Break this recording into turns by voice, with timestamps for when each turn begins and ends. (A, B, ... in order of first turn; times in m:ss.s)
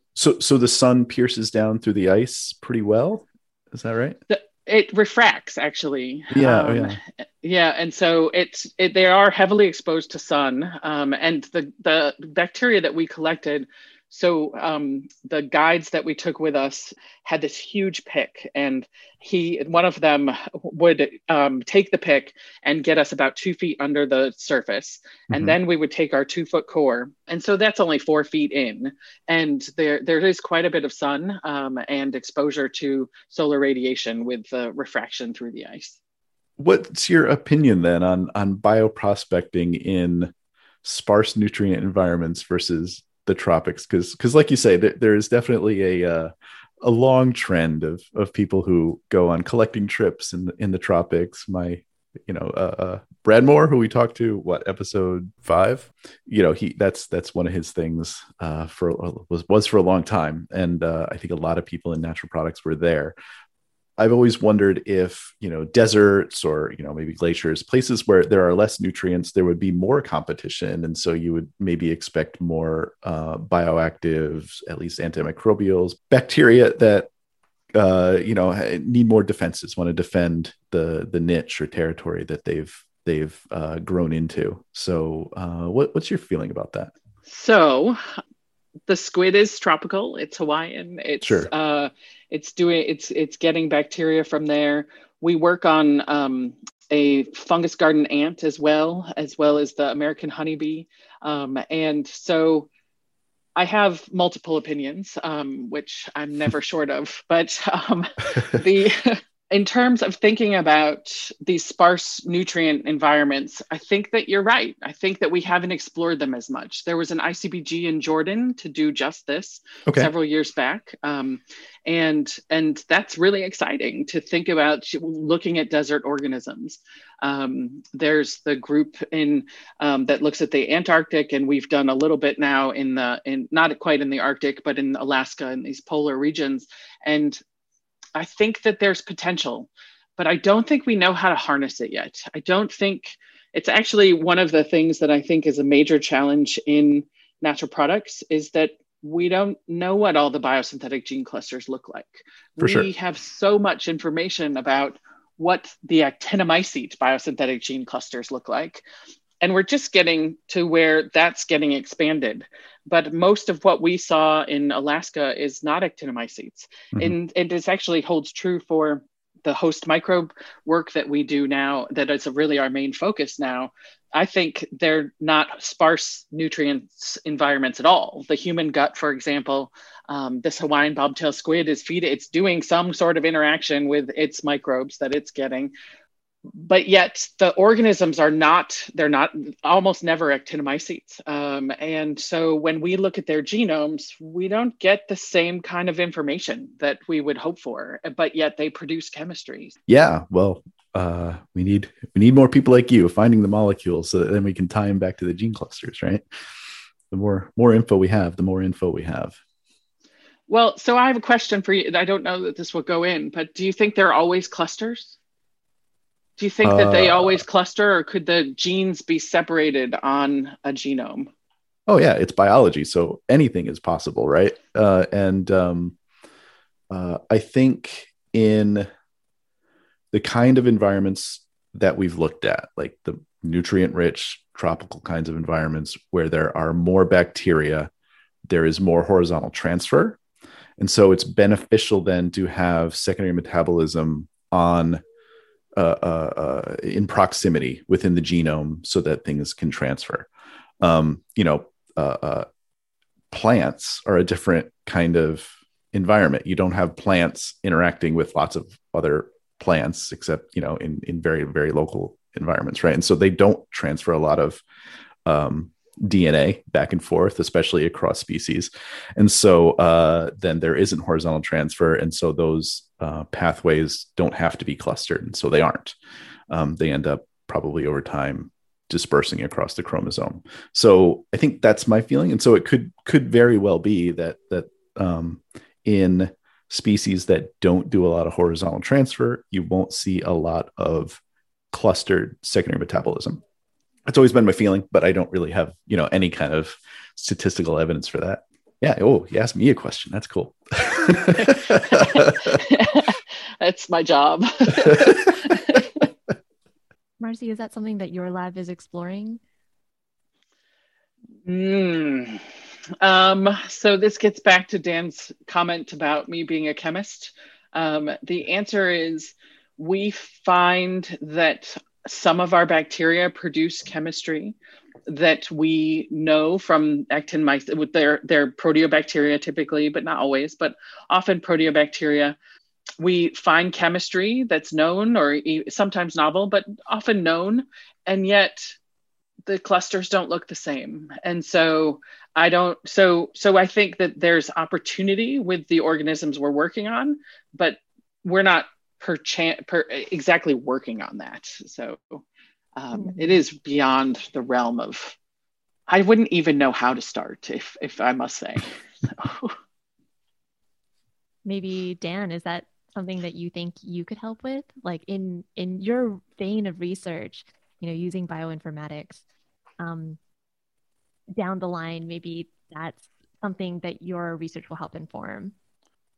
0:00.1-0:04.2 A
0:04.3-0:36.0 B
0:06.3-0:07.0 A
0:25.3-0:25.6 A
0:36.6-0:40.3 A
0:40.8-1:03.1 A
1:04.0-1:17.1 A
1:17.7-1:26.9 A
1:27.2-1:28.0 B
1:28.9-1:42.7 B
1:31.2-1:31.5 A
1:43.6-2:17.4 B
1:59.9-2:00.1 A
2:18.1-2:38.8 B
2:32.6-2:32.9 A
2:39.4-3:05.7 B
3:06.6-3:19.8 B
3:19.9-3:26.2 A
3:27.1-3:29.4 A
3:30.5-3:35.2 B
3:36.4-3:41.3 B
3:36.6-3:37.4 A
3:41.9-3:46.0 A
3:46.9-3:48.9 A
3:50.1-3:57.9 A
3:58.5-4:00.2 A
4:00.8-4:05.0 A
4:05.8-4:10.3 A
4:10.8-4:12.4 A
4:13.3-4:24.6 A
4:25.2-4:36.0 A
4:36.5-4:51.2 A
4:51.7-4:53.4 A
4:54.0-5:02.6 A
5:01.4-5:05.9 B
5:04.9-5:05.3 A
5:07.2-5:09.4 C
5:11.4-5:12.4 B
5:13.0-5:24.6 B
5:25.1-5:32.4 B
5:33.0-5:38.7 B
5:39.4-5:52.2 B
5:52.8-5:55.2 B
5:52.9-5:53.4 C
5:55.9-5:59.5 B
6:01.4-6:09.2 C
6:09.8-6:10.2 C
6:11.4-6:15.5 C